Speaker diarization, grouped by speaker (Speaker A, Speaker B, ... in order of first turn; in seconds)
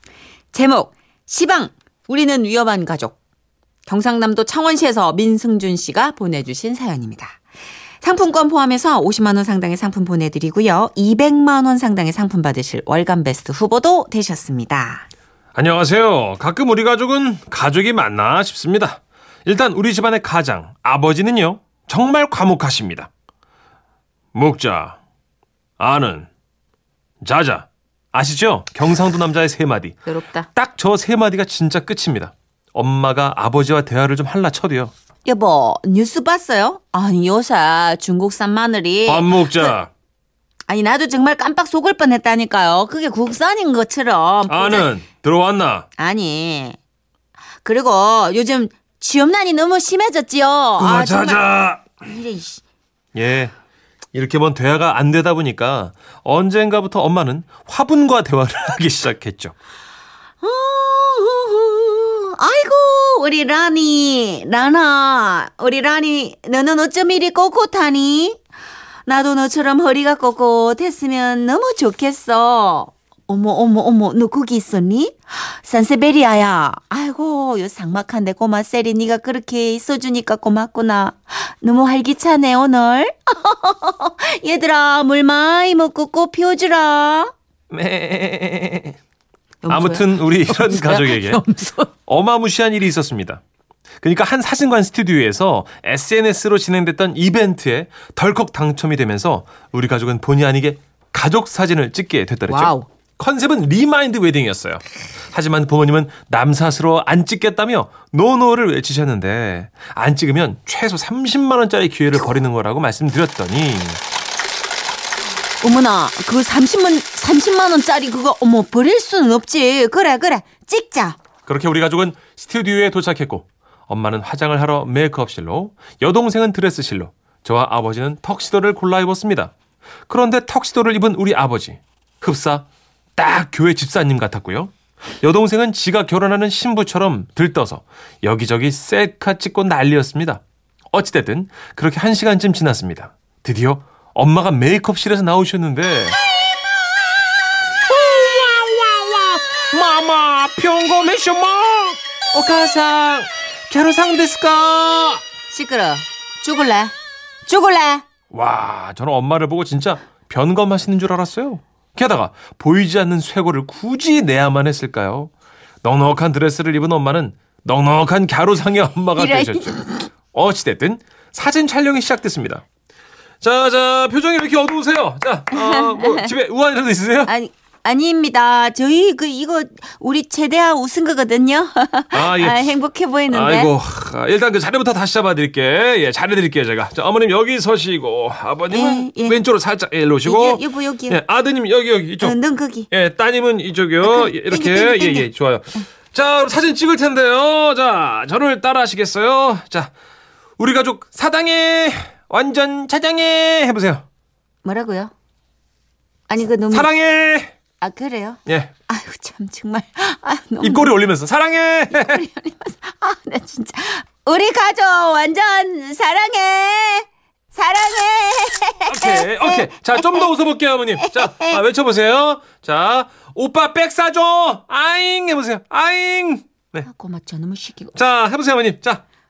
Speaker A: 0.5-3.1, 3.9-7.4, 8.0-15.1, 30.1-30.5, 35.2-39.8, 40.7-44.9, 46.0-46.8, 47.6-51.5, 52.0-52.6, 60.4-68.4, 69.0-87.3, 89.6-91.9, 102.5-102.9, 115.6-121.2, 155.5-156.9, 157.5-158.0, 169.2-170.1, 175.5-176.3, 177.2-183.7, 188.7-189.4, 190.2-191.2, 192.2-192.9, 194.0-195.3, 204.6-205.1, 206.3-206.9, 207.8-210.9, 211.9-220.2, 221.0-221.6, 226.8-227.9
Speaker B: 15.5-23.1, 24.3-25.0, 25.8-26.3, 27.2-30.0, 30.5-34.9, 39.0-39.9, 44.5-45.9, 50.8-52.0, 53.1-53.5, 54.1-59.5, 87.7-89.0, 89.7-91.4, 92.1-93.4, 94.0-114.0, 121.5-129.5, 130.1-132.7, 133.2-140.4, 140.9-146.2, 147.9-155.2, 158.3-165.3, 165.8-169.8, 170.3-172.6, 173.4-177.3, 182.1-182.7, 183.3-192.4, 192.9-199.9, 200.6-204.0, 206.7-207.5, 210.6-212.2, 218.9-226.9, 227.9-229.0